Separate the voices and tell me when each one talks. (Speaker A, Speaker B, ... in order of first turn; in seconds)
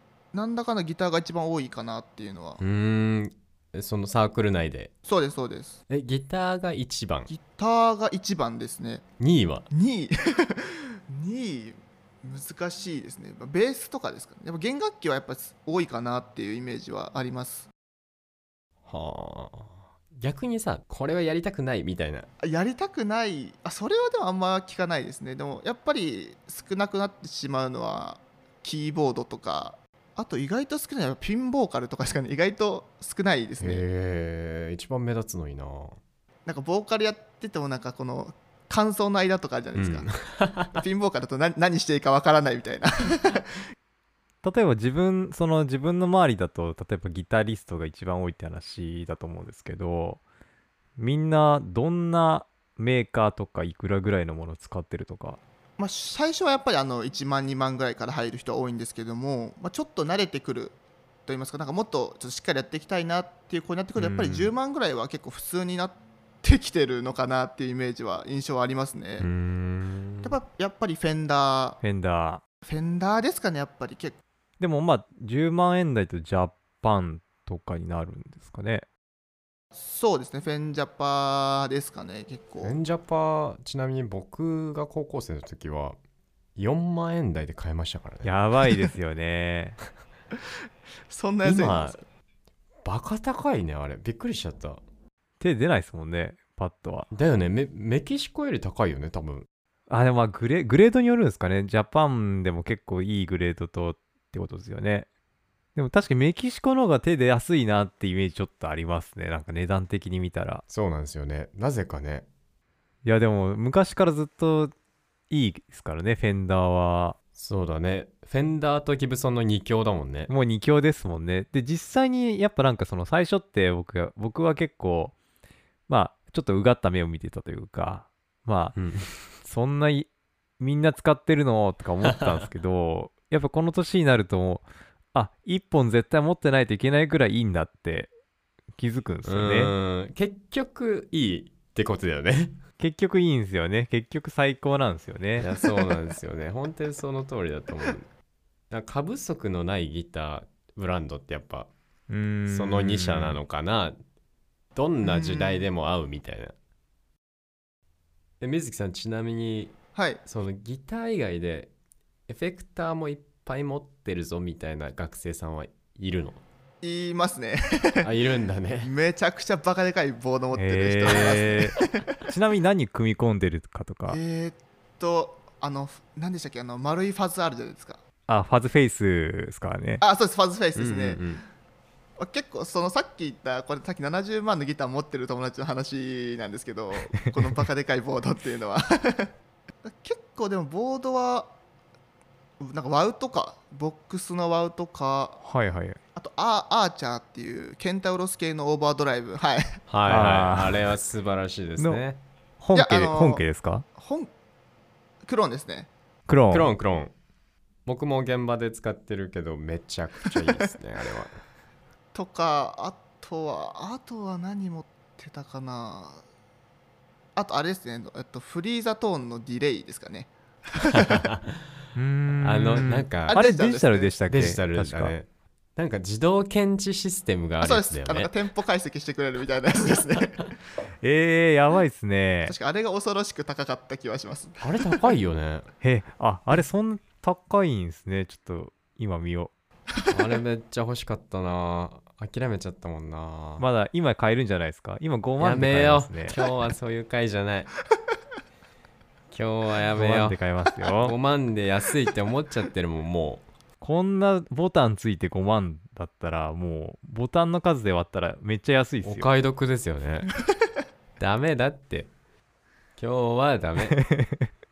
Speaker A: 0.3-2.6, 5.0-5.8, 7.3-9.1, 9.7-17.7, 22.4-33.8, 36.5-40.1, 40.7-43.6, 55.8-69.3, 70.2-71.8, 72.7-74.2, 79.8-82.8, 91.1-92.0, 155.0-155.7, 159.9-160.2, 166.8-168.1, 168.8-171.9, 174.1-178.0, 180.0-181.2, 182.2-189.3, 189.8-191.5, 192.6-195.4, 196.2-199.8, 202.7-203.4, 204.0-204.3, 205.2-205.9, 212.1-216.2, 217.4-221.2, 223.3-224.1, 227.6-230.5, 232.4-234.8
Speaker B: 2.6-4.9, 5.9-7.3, 9.2-9.7, 18.9-22.3, 33.6-36.0, 39.8-40.8, 69.2-70.4, 82.6-86.0, 86.6-88.4, 91.4-92.0, 92.8-94.8, 97.1-99.5, 110.7-112.3, 117.4-120.3, 128.8-129.1, 132.0-132.4, 139.2-142.6, 145.4-148.1, 148.7-151.7, 152.5-154.0, 154.8-156.6, 158.4-161.7, 162.3-166.4, 168.0-168.9, 171.1-171.4, 180.8-181.4, 199.9-202.2, 206.5-207.1, 207.9-211.4, 220.8-221.6, 222.4-223.4, 224.3-228.3, 234.6-235.7, 240.1-243.7, 245.4-247.7, 249.3-250.4, 251.0-253.4, 259.0-260.3, 261.2-262.1, 263.0-264.0
Speaker C: 44.4-50.2, 51.0-55.4, 64.0-64.5, 71.8-72.4, 74.6-78.9, 88.2-89.8, 95.4-97.1, 99.9-105.1, 105.8-110.6, 113.0-114.7, 115.3-117.2, 120.3-125.2, 125.9-128.8, 129.4-130.1, 130.6-138.1, 138.8-139.7, 142.8-145.5, 152.1-153.4, 170.6-174.2, 178.3-180.0, 195.4-196.0, 200.1-200.9, 202.6-203.8, 206.3-206.7, 221.9-225.2, 231.0-232.6, 235.8-239.5, 243.6-246.4, 250.0-251.2, 253.8-259.3, 264.0-264.5